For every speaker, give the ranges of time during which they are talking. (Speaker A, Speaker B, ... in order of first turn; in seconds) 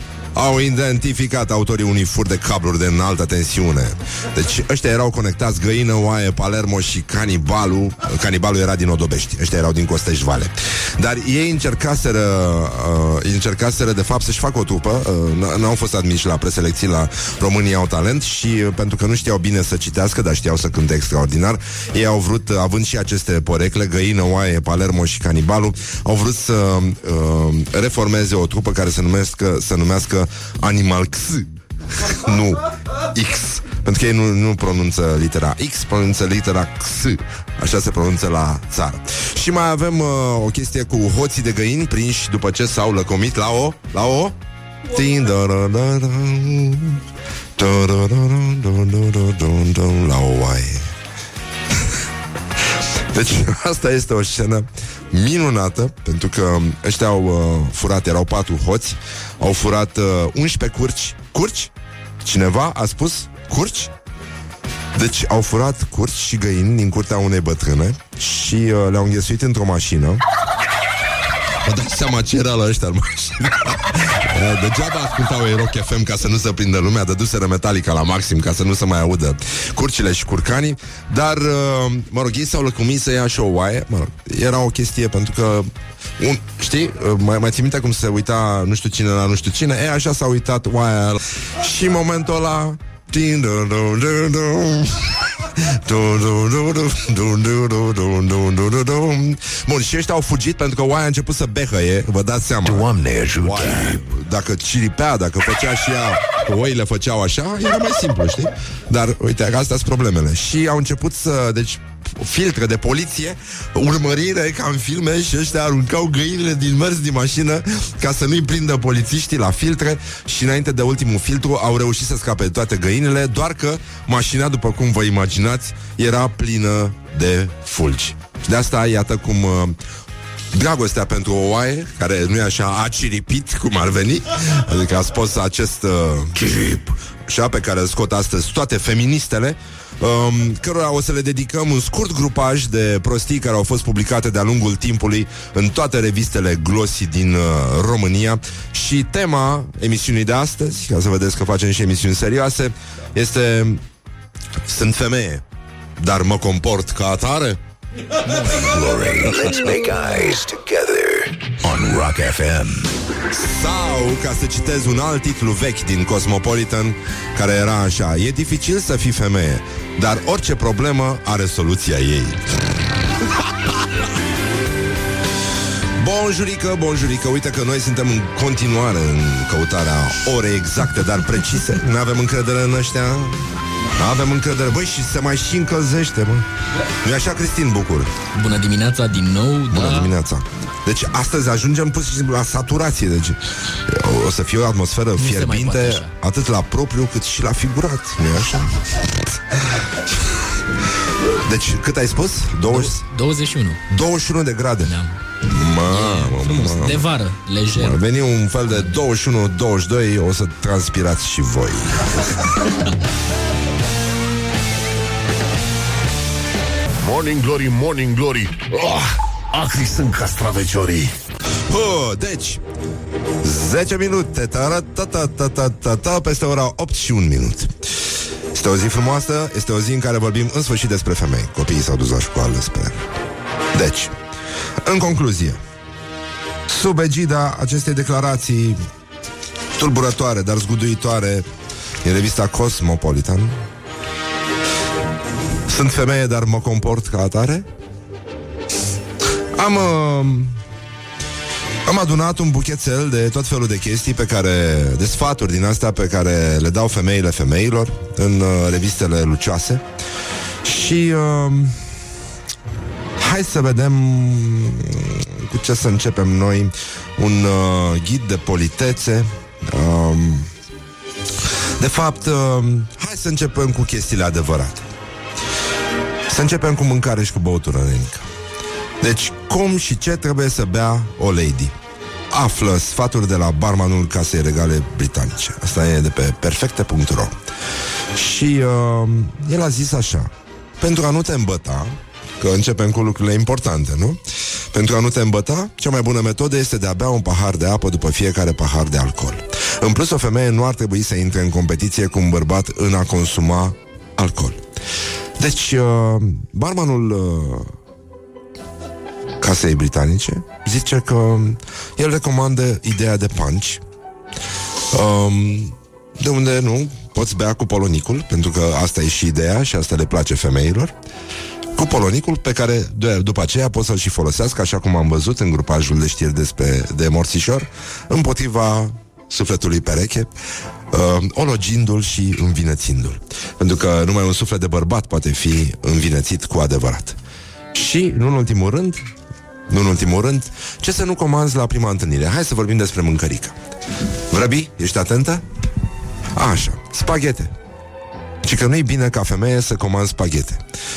Speaker A: 0.3-44.4, 44.9-47.0, 47.6-50.9, 53.1-61.7, 62.2-63.9, 65.0-70.2, 71.6-129.8, 130.5-136.5, 137.3-153.8, 154.7-155.4, 156.0-157.6, 163.3-172.4, 176.0-183.4, 184.0-186.5, 187.0-188.1, 189.7-200.2, 201.3-203.1, 203.9-204.9, 205.5-207.1, 207.8-212.6, 221.7-222.6, 223.4-227.7, 228.5-233.1, 233.7-234.1, 234.8-235.6, 236.7-238.8, 239.8-241.5, 242.0-243.6, 245.7-247.7, 249.6-250.6, 251.9-259.8, 260.6-261.8, 263.2-270.5, 271.8-274.9, 276.3-278.3, 279.0-281.7, 282.3-287.4, 288.1-294.2, 294.7-304.6, 305.4-307.7, 309.4-313.8, 314.9-320.9, 321.8-330.3, 330.9-337.2, 337.7-339.1, 339.7-343.6, 344.3-345.4, 346.4-347.5, 348.4-350.6
Speaker B: 102.6-104.0, 136.4-136.9, 158.3-162.9
Speaker C: 188.3-190.1, 195.2-196.1, 202.7-203.8, 204.9-205.1, 205.9-208.0
Speaker D: 217.0-221.1